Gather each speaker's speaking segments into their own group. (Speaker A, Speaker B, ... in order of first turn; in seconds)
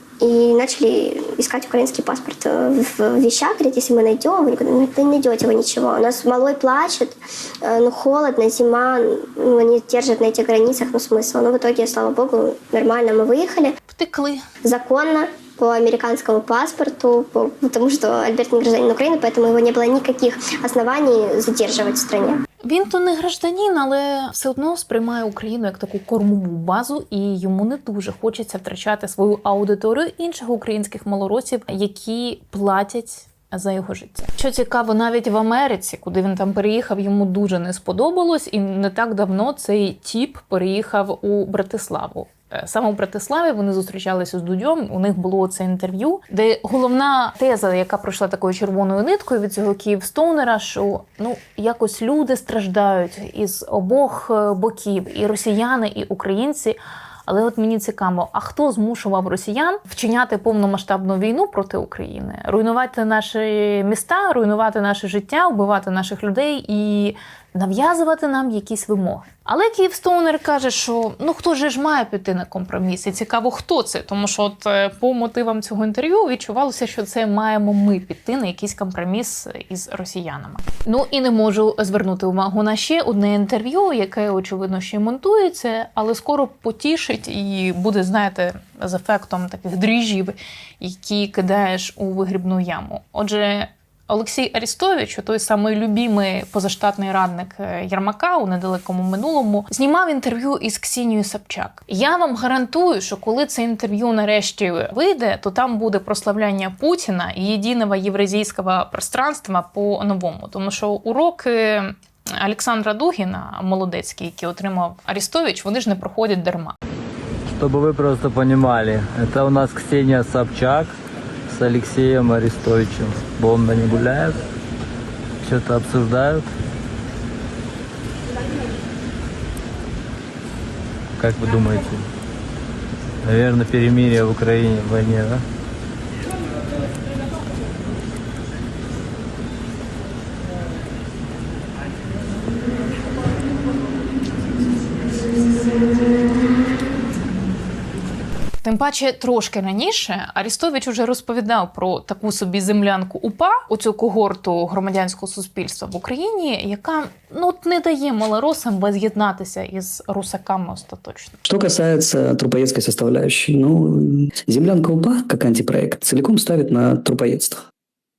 Speaker A: 0.2-13.7, 14.6-22.4
Speaker B: 13.9-14.4, 22.6-116.8, 148.6-161.4
Speaker C: 117.5-120.9, 121.5-124.4, 125.4-126.4, 131.2-132.0, 133.2-135.4
Speaker D: 161.4-167.6